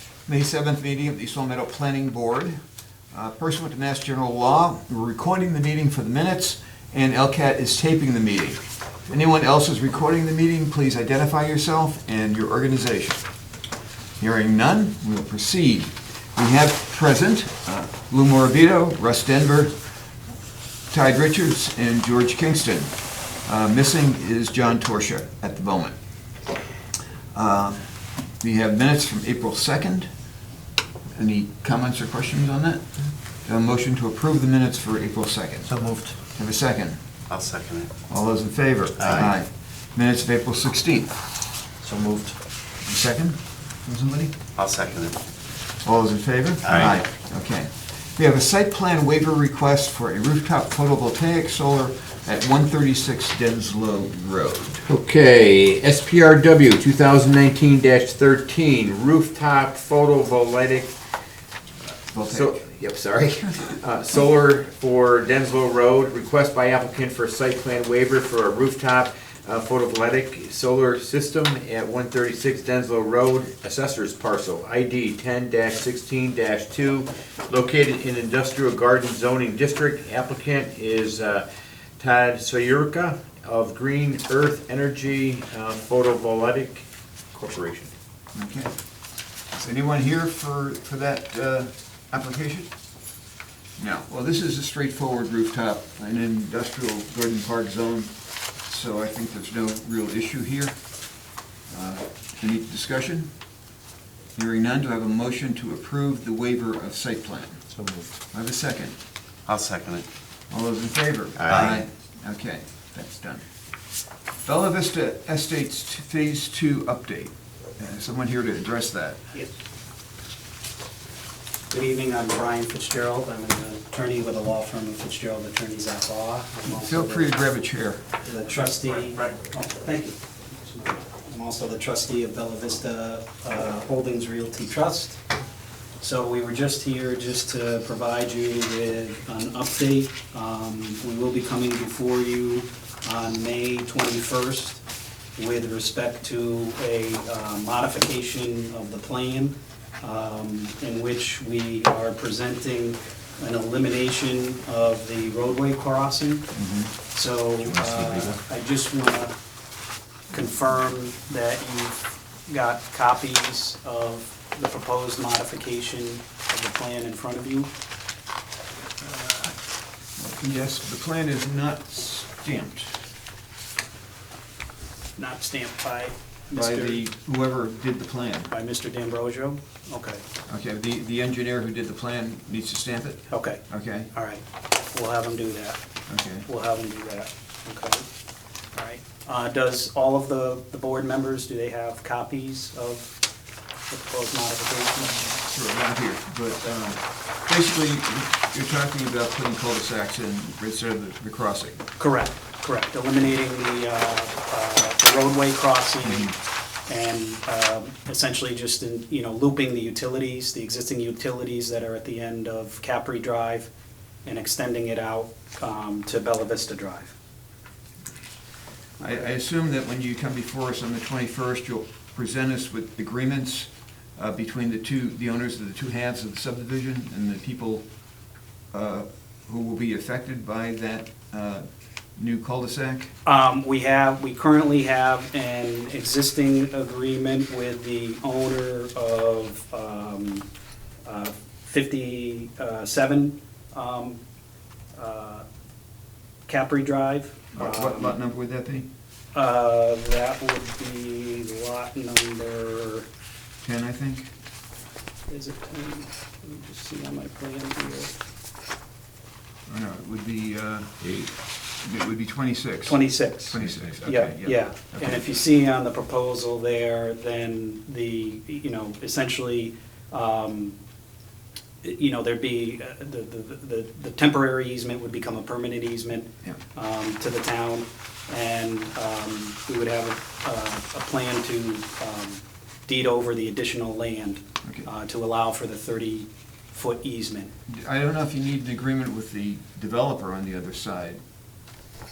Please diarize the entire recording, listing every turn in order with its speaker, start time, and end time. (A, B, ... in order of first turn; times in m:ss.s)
0:00.3-0:02.6 A
0:03.1-0:13.2 A
0:14.2-0:19.7 A
0:20.9-0:22.9 A
0:23.4-0:25.9 A
0:27.3-0:27.8 A
0:28.4-0:30.1 A
0:31.2-0:32.8 A
0:33.4-0:35.7 A
0:35.7-0:36.2 B
0:36.4-0:37.0 A
0:37.3-0:37.9 B
0:38.1-0:41.2 A
0:39.0-0:39.3 B
0:41.8-0:42.4 B
0:42.8-0:44.3 A
0:44.6-0:45.2 B
0:45.8-0:54.8 A
0:46.7-0:47.0 B
0:54.8-1:00.9 C
1:02.1-1:02.6 A
1:02.3-1:21.5 C
1:22.0-1:27.9 C
1:28.3-1:28.7 A
1:29.5-1:32.7 A
1:33.8-1:38.1 A
1:38.6-1:40.8 A
1:41.7-1:43.3 A
1:44.4-1:47.6 A
1:47.8-1:48.1 B
1:48.3-1:49.0 A
1:49.5-1:50.1 B
1:50.5-1:53.4 A
1:51.4-1:51.7 C
1:51.5-1:51.8 B
1:54.4-1:59.2 A
2:01.7-2:07.4 D
2:06.6-2:08.0 A
2:08.2-2:15.2 D
2:16.0-2:24.8 D
2:25.4-2:36.5 D
2:36.5-2:36.9 A
2:37.1-2:39.3 D
2:37.8-2:38.3 B
2:40.3-2:47.7 D
2:49.0-2:49.6 D
2:50.2-2:53.0 A
2:55.2-2:57.0 D
2:56.5-2:58.5 A
2:58.5-3:00.2 D
3:00.5-3:04.1 A
3:03.3-3:03.6 D
3:04.1-3:05.8 D
3:06.1-3:06.5 A
3:06.4-3:08.1 D
3:08.8-3:13.2 D
3:13.9-3:15.4 D
3:15.1-3:21.8 A
3:22.0-3:33.7 D
3:26.0-3:26.3 A
3:34.2-3:37.1 D
3:39.0-3:47.8 A
3:48.7-3:51.6 A
3:52.2-3:53.1 A
3:53.2-4:00.5 D
4:01.0-4:04.2 D
4:05.0-4:05.4 D
4:06.5-4:08.2 D
4:07.6-4:08.9 A
4:09.3-4:13.1 D
4:13.6-4:14.3 A
4:15.3-4:18.2 D
4:19.7-4:21.0 A
4:21.0-4:21.3 C
4:21.8-4:25.4 A
4:22.9-4:30.8 D
4:23.6-4:23.9 C
4:31.8-4:47.5 D
4:47.7-4:51.2 A